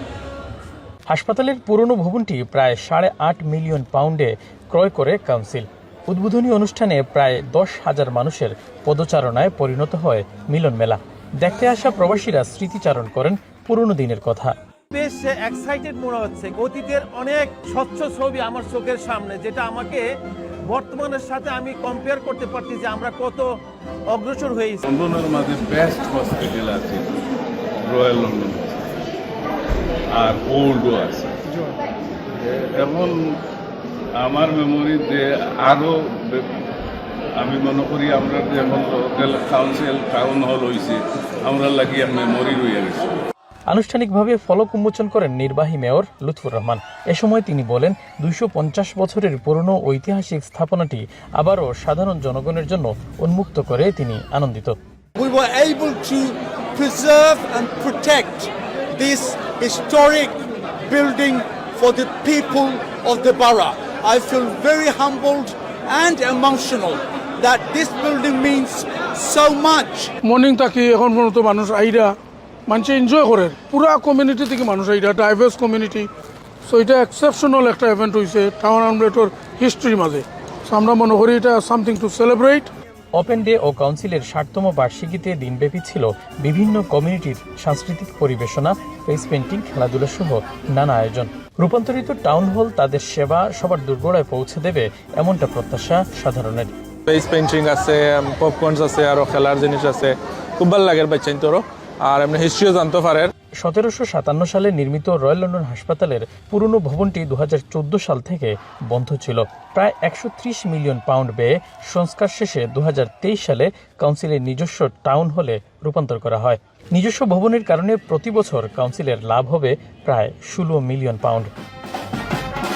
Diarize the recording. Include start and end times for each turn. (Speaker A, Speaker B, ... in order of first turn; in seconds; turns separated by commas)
Speaker A: 1.1-14.5, Speaker B: 14.9-20.1, Speaker B: 20.7-23.5, Speaker B: 24.1-24.8, Speaker C: 24.9-27.2, Speaker C: 27.8-29.0, Speaker C: 30.1-31.4, Speaker C: 32.4-33.4, Speaker C: 34.2-36.5, Speaker C: 37.4-43.1, Speaker A: 43.7-54.8, Speaker D: 55.2-70.1, Speaker E: 70.2-72.2, Speaker E: 72.7-76.1, Speaker E: 76.7-82.7, Speaker A: 83.1-96.7, Speaker F: 97.1-103.3, Speaker A: 103.6-121.5